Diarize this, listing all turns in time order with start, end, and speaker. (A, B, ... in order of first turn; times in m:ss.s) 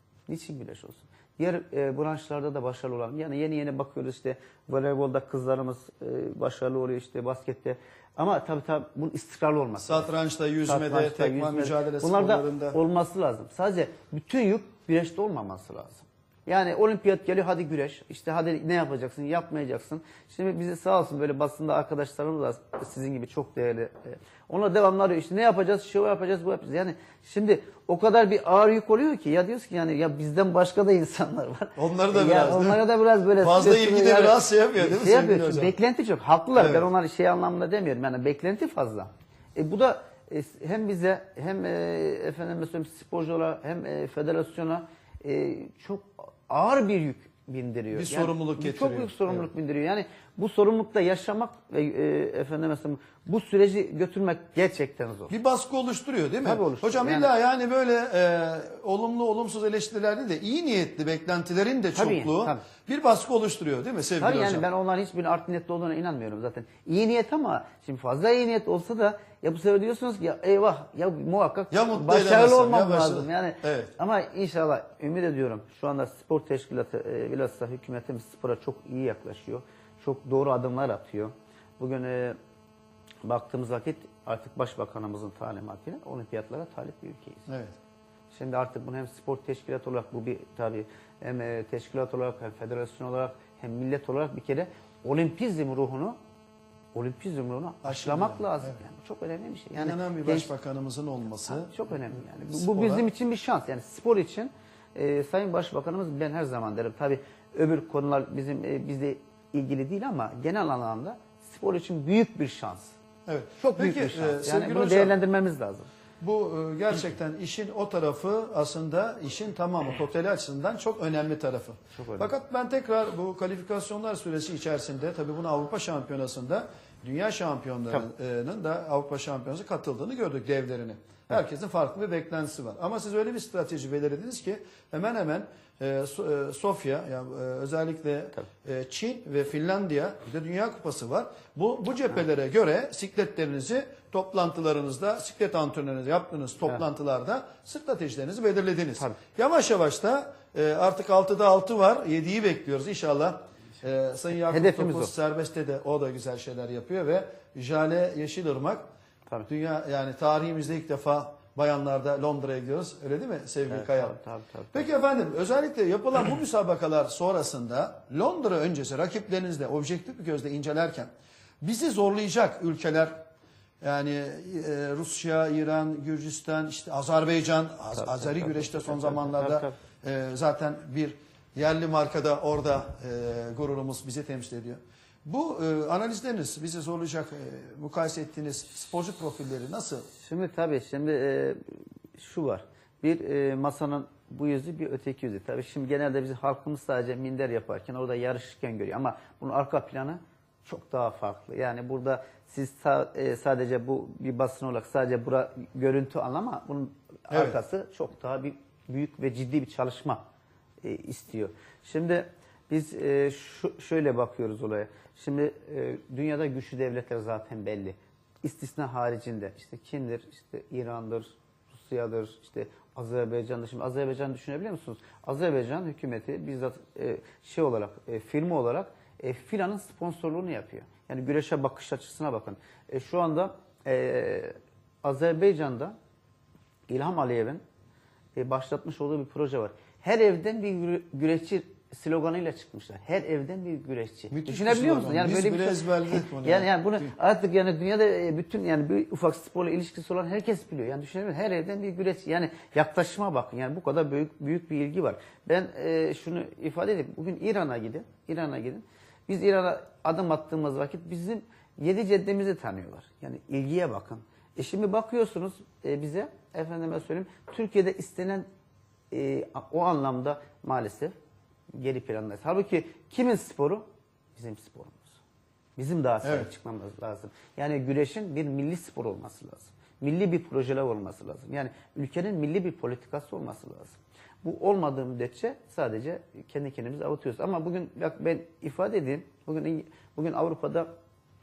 0:00.3-0:10.1 A
0:09.8-0:12.8 B
0:10.6-0:55.3 A
0:31.8-0:32.8 B
0:33.4-0:35.7 B
0:36.6-0:36.9 B
0:47.9-0:49.5 B
0:55.3-1:04.6 B
0:56.4-0:57.3 A
1:01.9-1:02.6 A
1:04.2-1:22.4 A
1:11.7-1:13.9 B
1:23.2-1:27.5 A
1:27.5-1:27.7 B
1:28.3-1:36.2 A
1:36.9-1:40.5 A
1:37.8-1:38.8 B
1:39.8-1:41.7 B
1:41.4-1:52.9 A
1:42.5-1:43.0 B
1:53.2-1:55.2 B
1:53.6-1:55.9 A
1:56.2-2:38.8 B
2:01.9-2:02.3 A
2:34.5-2:35.1 A
2:39.5-2:44.1 B
2:43.7-2:44.9 A
2:44.7-2:53.2 B
2:53.8-3:10.1 B
2:58.0-2:59.8 A
3:10.2-3:11.6 A
3:12.2-3:30.2 A
3:27.3-3:27.6 B
3:30.8-3:55.9 A
3:56.9-3:57.6 A
3:58.4-4:28.4 A
4:04.3-4:07.1 B
4:29.1-4:31.1 A
4:31.7-4:33.8 A
4:34.4-4:35.2 A
4:35.8-4:50.9 A
4:36.2-4:36.5 B